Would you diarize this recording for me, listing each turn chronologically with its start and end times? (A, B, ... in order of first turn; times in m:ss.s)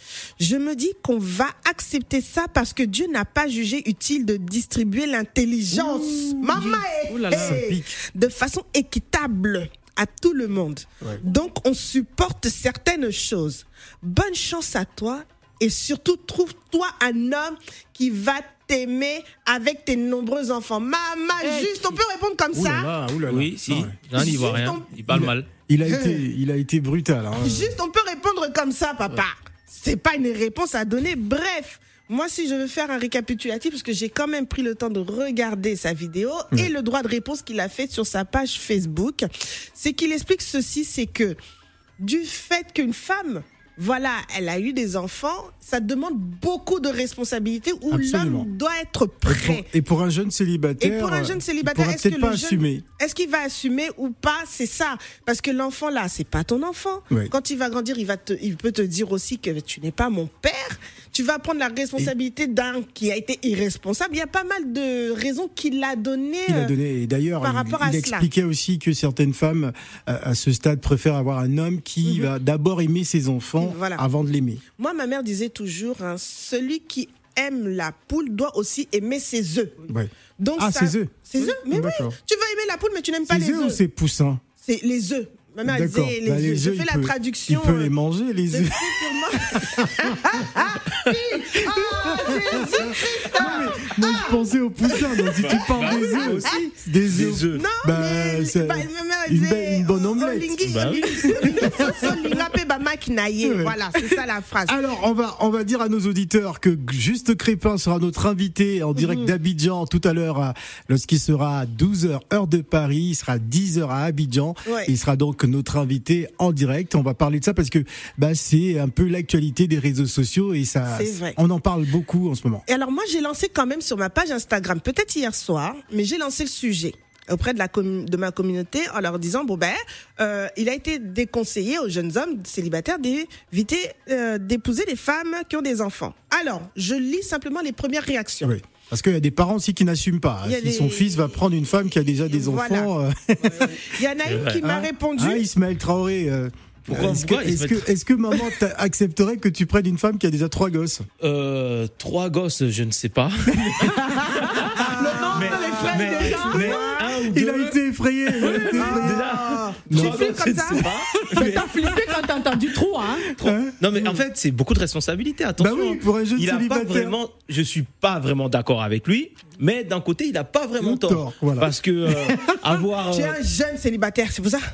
0:00.4-0:22.9 A
0:05.7-0:06.7 B
0:06.6-0:07.6 C
0:07.3-0:08.0 B
0:22.5-0:24.2 B
0:23.3-0:25.5 C
0:24.1-0:25.0 A
0:25.1-0:27.8 B
0:25.9-0:26.2 A
0:27.4-0:41.4 A
0:42.0-0:49.7 A
0:47.9-0:48.5 B
0:49.2-0:52.8 B
0:50.8-1:06.8 A
1:06.5-1:14.6 B
1:07.4-1:08.3 A
1:12.0-1:12.3 A
1:13.6-1:14.0 A
1:14.8-1:19.8 A
1:19.9-1:22.2 B
1:20.4-1:23.8 A
1:23.3-1:24.4 B
1:24.6-1:27.9 A
1:25.6-1:30.5 B
1:28.5-1:36.7 A
1:31.6-1:42.4 B
1:35.3-1:37.7 C
1:37.5-1:44.8 A
1:40.6-1:41.7 C
1:43.4-2:02.6 B
1:49.0-1:49.3 A
1:54.7-1:54.9 A
2:00.9-2:01.4 A
2:02.7-2:18.6 A
2:18.4-2:31.1 B
2:20.4-2:21.4 A
2:22.3-2:22.9 A
2:23.6-2:25.5 A
2:24.3-2:24.6 C
2:26.9-2:27.9 C
2:31.2-2:37.8 C
2:34.8-2:37.1 A
2:34.9-2:36.8 D
2:36.2-2:40.8 B
2:38.4-2:42.2 C
2:38.8-2:40.9 A
2:41.3-2:43.3 D
2:43.3-2:53.4 C
2:43.4-2:44.2 B
2:45.6-2:47.2 B
2:50.8-2:52.6 B
2:53.0-2:54.6 A